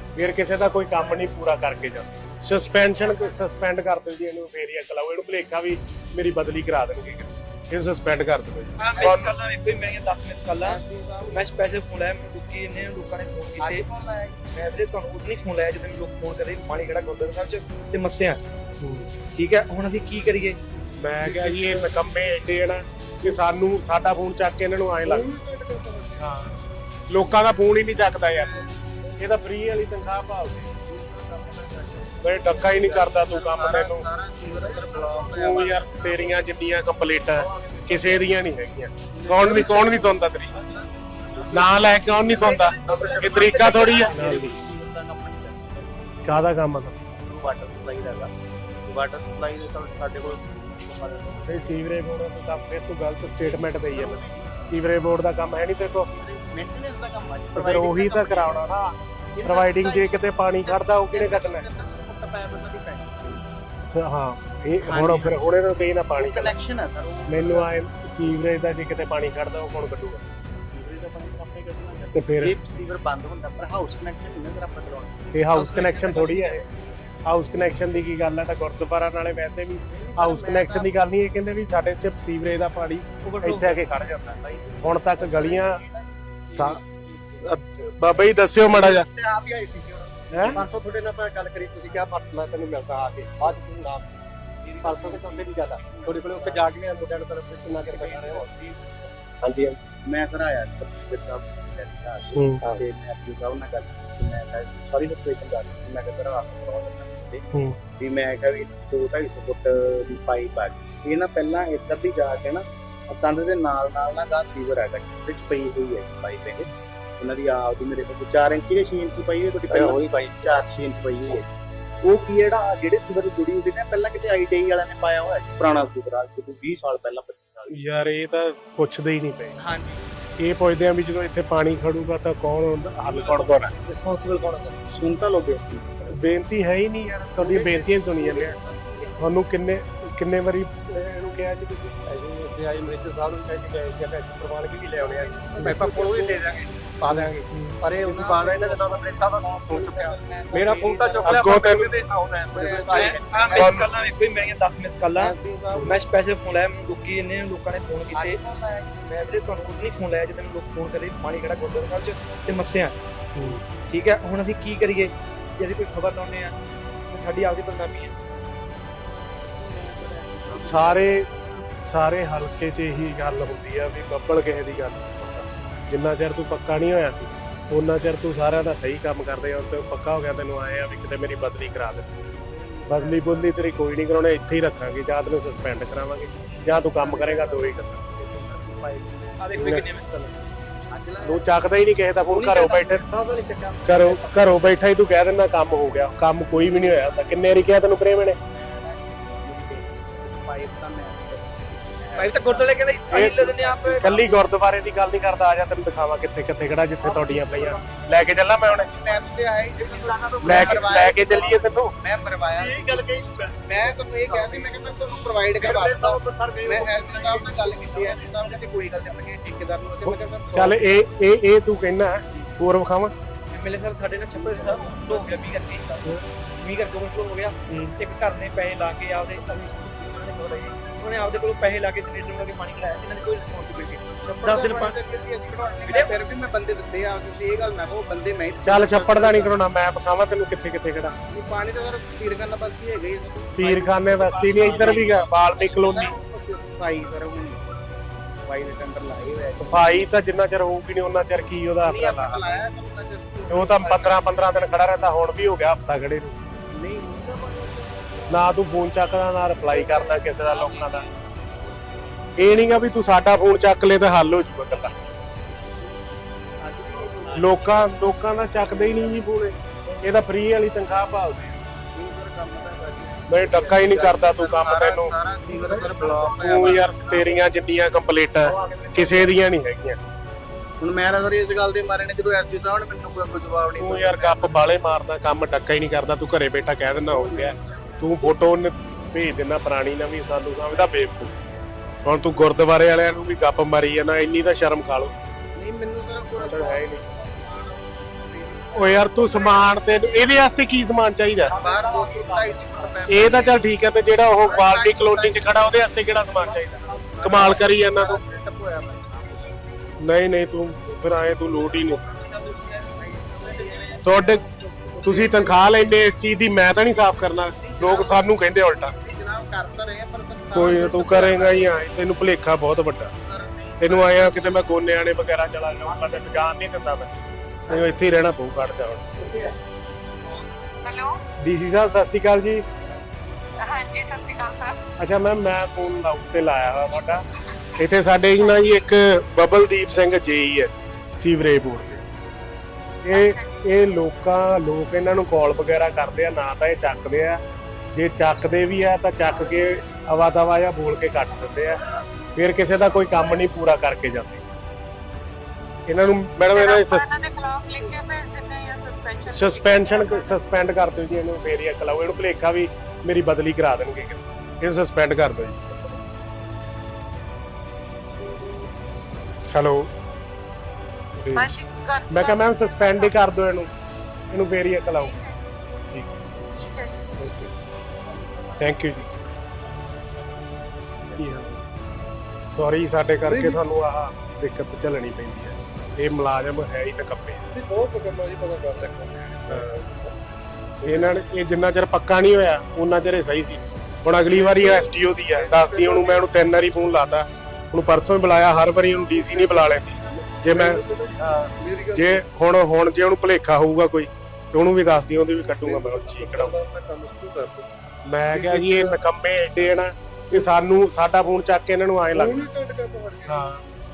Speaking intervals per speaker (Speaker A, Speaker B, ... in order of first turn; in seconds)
Speaker A: 0.1-9.3, 18.8-19.1, 21.0-25.3, 26.2-26.5, 27.1-28.6, 29.2-30.7, 32.2-34.0, 35.3-40.5, 41.5-44.6, 46.2-47.0, 51.5-56.1, 57.5-61.6, 63.9-66.5, 67.3-70.2, 72.1-72.5, 75.3-76.6, 77.2-85.8, 86.5-86.8, 87.4-89.0, 90.3-90.6, 127.7-129.6, 130.4-133.7, 136.1-138.5, 139.2-142.0, 147.1-147.8, 151.2-151.9, 153.5-153.9, 163.3-163.6, 170.5-171.2, 171.9-182.1, 182.9-188.0, 189.6-189.8, 191.2-193.1, 193.8-198.4, 203.1-208.9, 210.4-211.9, 220.1-223.1, 238.6-241.2, 243.6-246.1, 249.5-252.4, 253.5-256.3, 258.3-261.1, 262.4-264.9, 267.3-271.6, 273.3-275.1, 276.4-280.0, 283.8-291.3, 292.0-295.1, 296.4-297.0, 298.7-301.5, 303.1-308.2, 310.0-312.0, 314.0-314.4, 315.0-318.9, 320.5-323.1, 323.8-327.1, 327.7-329.1, 331.4-332.6, 335.0-337.2, 337.8-342.0, 343.0-347.4, 347.9-351.8, 352.4-354.4, 355.9-357.1, 359.3-366.0, 369.5-369.9, 371.2-373.7, 374.3-375.1, 377.2-377.5, 378.6-379.1, 381.2-381.6, 382.5-387.4, 390.8-406.6, 408.0-412.5, 413.2-413.6
Speaker B: 8.8-13.9, 14.5-18.4, 19.3-20.6, 75.5-76.5, 83.2-83.8, 152.9-155.3, 155.8-158.4, 159.1-162.9, 163.9-166.5, 167.1-168.1, 189.4-190.3, 192.3-192.9, 202.2-204.1, 223.5-235.0, 235.9-236.2, 244.6-245.1
Speaker C: 10.6-11.6, 13.6-14.5, 28.4-28.7, 30.9-36.1, 39.1-40.0, 40.6-45.9, 47.1-48.3, 48.9-51.5, 53.4-54.6, 55.8-58.6, 59.4-63.5, 64.8-65.4, 66.2-67.7, 70.6-75.3, 76.4-77.2, 79.9-80.9, 84.4-87.5, 94.6-96.7, 97.8-99.0, 100.0-107.5, 108.0-121.4, 122.0-127.8, 129.6-130.0, 133.1-136.2, 138.2-139.3, 145.0-146.4, 147.9-151.6, 152.5-153.8, 155.2-155.9, 158.1-158.8, 169.9-170.9, 182.5-183.4, 186.7-189.8, 190.9-191.4, 198.5-204.5, 208.6-213.1, 213.6-221.0, 224.4-224.9, 234.2-239.5, 241.3-250.1, 251.8-254.2, 256.7-258.9, 259.5-262.0, 266.6-267.9, 268.8-269.1, 271.9-277.4, 278.6-279.3, 280.8-284.6, 287.1-288.0, 295.5-300.2, 301.4-303.6, 304.4-305.7, 306.4-309.7, 312.0-315.6, 317.5-318.3, 318.9-321.7, 323.2-324.3, 327.7-327.9
Speaker D: 25.1-26.2, 34.6-35.5, 42.9-44.3, 88.7-94.2, 94.8-98.7, 119.7-120.7, 137.4-138.2, 142.1-153.8, 155.3-155.8, 170.7-171.3, 193.1-194.4, 207.0-208.1, 209.7-211.4, 212.6-214.8, 215.6-218.6, 275.4-276.7, 301.6-302.9, 306.4-307.4, 387.5-389.9, 390.8-391.1, 394.3-394.8, 395.5-396.1, 400.5-402.1, 405.6-407.7, 408.4-408.8, 412.4-413.3
Speaker E: 330.8-331.2, 333.6-334.8, 343.1-343.6, 356.5-360.4, 371.3-373.4, 374.9-375.7, 376.5-377.2